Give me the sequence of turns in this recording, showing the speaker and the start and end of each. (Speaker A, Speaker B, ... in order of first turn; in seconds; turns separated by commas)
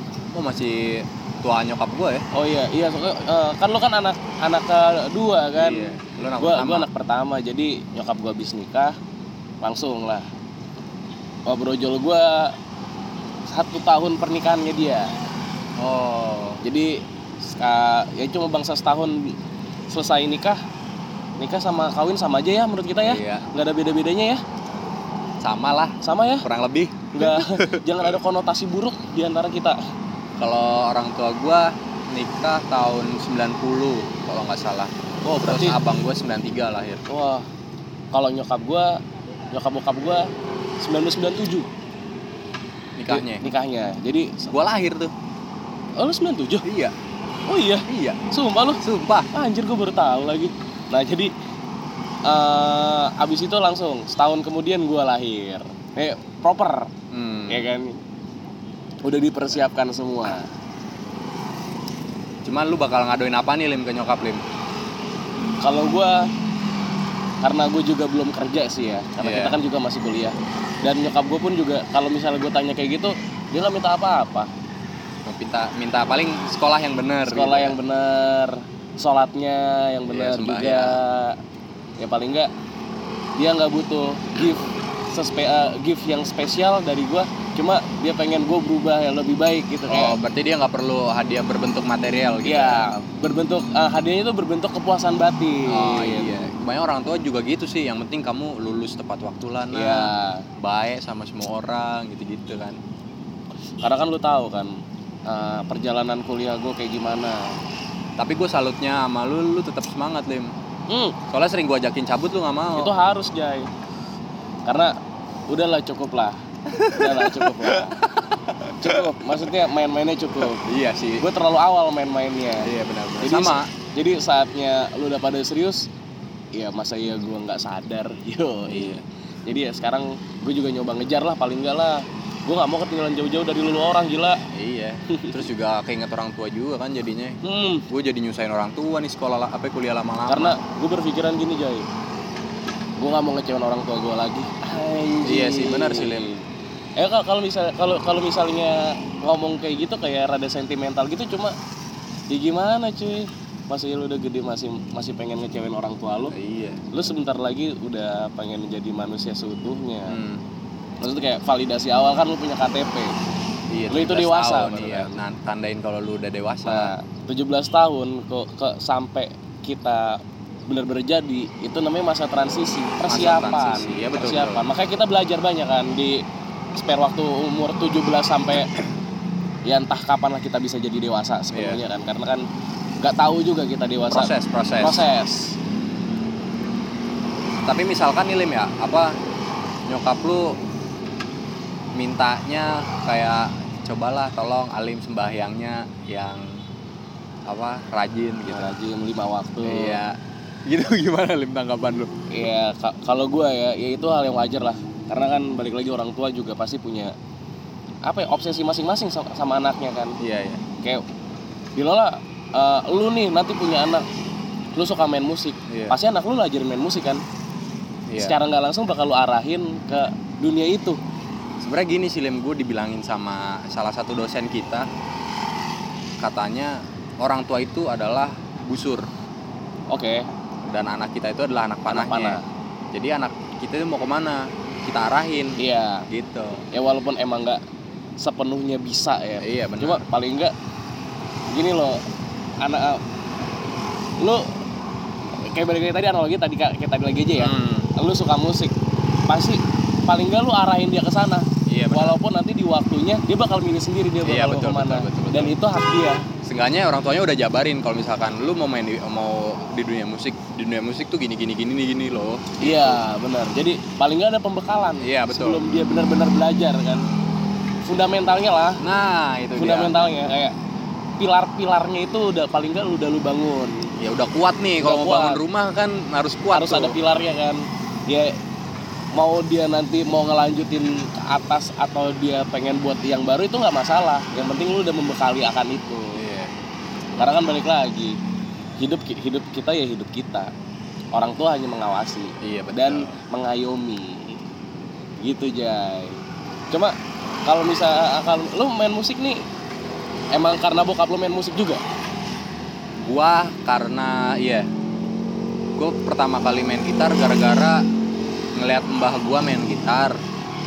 Speaker A: 0.3-2.2, Speaker B: 2.3-9.0, Speaker A: 5.5-6.9, Speaker B: 9.6-10.2, Speaker B: 11.5-12.5, Speaker B: 13.4-15.1, Speaker A: 15.8-16.6, Speaker B: 16.6-19.3, Speaker B: 19.9-20.6, Speaker B: 21.4-24.4, Speaker A: 23.0-23.5, Speaker A: 25.4-28.2, Speaker B: 26.0-26.4, Speaker B: 27.1-29.8, Speaker A: 30.4-37.0, Speaker B: 35.4-35.8, Speaker B: 37.1-37.5, Speaker B: 38.1-39.0, Speaker B: 39.5-40.3, Speaker B: 40.8-41.7, Speaker A: 43.0-43.5, Speaker B: 43.1-44.5, Speaker A: 44.5-45.1, Speaker B: 46.0-46.7, Speaker A: 46.6-46.9, Speaker B: 47.5-48.8, Speaker A: 47.8-48.2, Speaker A: 48.8-49.3, Speaker B: 49.3-51.3, Speaker B: 52.2-56.9, Speaker A: 57.1-57.7, Speaker B: 57.5-58.0, Speaker B: 59.0-60.5, Speaker A: 62.4-64.4, Speaker B: 65.6-66.3, Speaker B: 67.4-74.5, Speaker A: 69.2-69.6, Speaker A: 75.2-77.8, Speaker B: 77.2-81.4, Speaker A: 80.1-81.0, Speaker B: 82.0-82.5, Speaker B: 83.4-90.2, Speaker A: 89.9-92.9, Speaker B: 92.4-96.3, Speaker A: 95.7-102.8, Speaker B: 99.7-100.5, Speaker B: 103.8-104.8, Speaker B: 105.2-107.6, Speaker A: 108.2-110.5, Speaker B: 110.9-111.2, Speaker A: 111.3-112.9, Speaker B: 112.8-113.7, Speaker B: 114.7-115.0, Speaker B: 115.5-116.4, Speaker A: 116.7-119.4, Speaker B: 116.9-118.0, Speaker B: 118.8-120.6, Speaker A: 120.4-121.3, Speaker B: 121.2-122.7, Speaker A: 122.6-123.7, Speaker B: 123.2-125.9, Speaker B: 126.5-134.4, Speaker A: 128.7-129.0, Speaker A: 134.5-137.4, Speaker B: 135.1-135.4, Speaker B: 137.4-137.8, Speaker A: 137.9-140.6, Speaker B: 140.3-141.9, Speaker B: 143.0-146.4, Speaker A: 145.2-146.3, Speaker B: 147.0-151.6, Speaker B: 152.3-156.3, Speaker A: 156.3-156.9, Speaker B: 156.9-160.2, Speaker A: 160.1-160.4, Speaker B: 161.0-163.1, Speaker A: 163.7-166.9, Speaker B: 163.9-165.1, Speaker B: 166.6-176.2, Speaker A: 173.1-174.6, Speaker B: 176.8-178.7, Speaker B: 179.7-182.4, Speaker A: 181.5-181.8, Speaker B: 183.0-185.6, Speaker A: 184.1-185.0, Speaker A: 187.6-189.1, Speaker A: 189.9-190.6, Speaker A: 191.9-196.6, Speaker A: 197.5-198.7, Speaker B: 198.5-200.0, Speaker A: 199.6-202.1, Speaker B: 202.3-207.1, Speaker B: 208.1-210.2, Speaker A: 210.2-210.6, Speaker B: 210.8-211.1, Speaker B: 211.8-214.1, Speaker B: 214.8-217.2, Speaker A: 215.7-216.0, Speaker A: 218.1-218.4, Speaker B: 218.2-221.0, Speaker A: 221.6-224.9, Speaker A: 226.2-229.1, Speaker B: 229.9-230.3, Speaker A: 230.7-232.4, Speaker B: 231.9-232.4, Speaker A: 232.9-236.7, Speaker B: 235.6-236.1, Speaker B: 236.7-237.6, Speaker B: 238.2-240.5, Speaker A: 239.4-240.0, Speaker B: 241.5-242.0, Speaker B: 242.6-243.0, Speaker B: 244.2-244.5, Speaker B: 245.4-248.7, Speaker A: 247.4-247.9, Speaker B: 249.3-256.2, Speaker A: 251.7-252.2, Speaker A: 254.2-255.6, Speaker A: 256.4-263.0, Speaker B: 262.6-267.1, Speaker A: 265.0-265.6, Speaker A: 266.9-267.2, Speaker B: 267.9-268.8, Speaker A: 268.8-269.9, Speaker B: 269.6-270.6, Speaker B: 271.2-273.9, Speaker A: 274.0-277.0, Speaker B: 274.8-275.4, Speaker B: 276.5-278.4, Speaker B: 279.1-286.2, Speaker A: 286.2-286.5, Speaker B: 287.2-288.2, Speaker B: 288.8-290.5, Speaker B: 291.1-294.4, Speaker A: 292.4-293.1, Speaker B: 295.2-299.4, Speaker B: 300.3-301.8, Speaker A: 303.0-304.7, Speaker A: 305.8-307.8, Speaker A: 308.6-310.2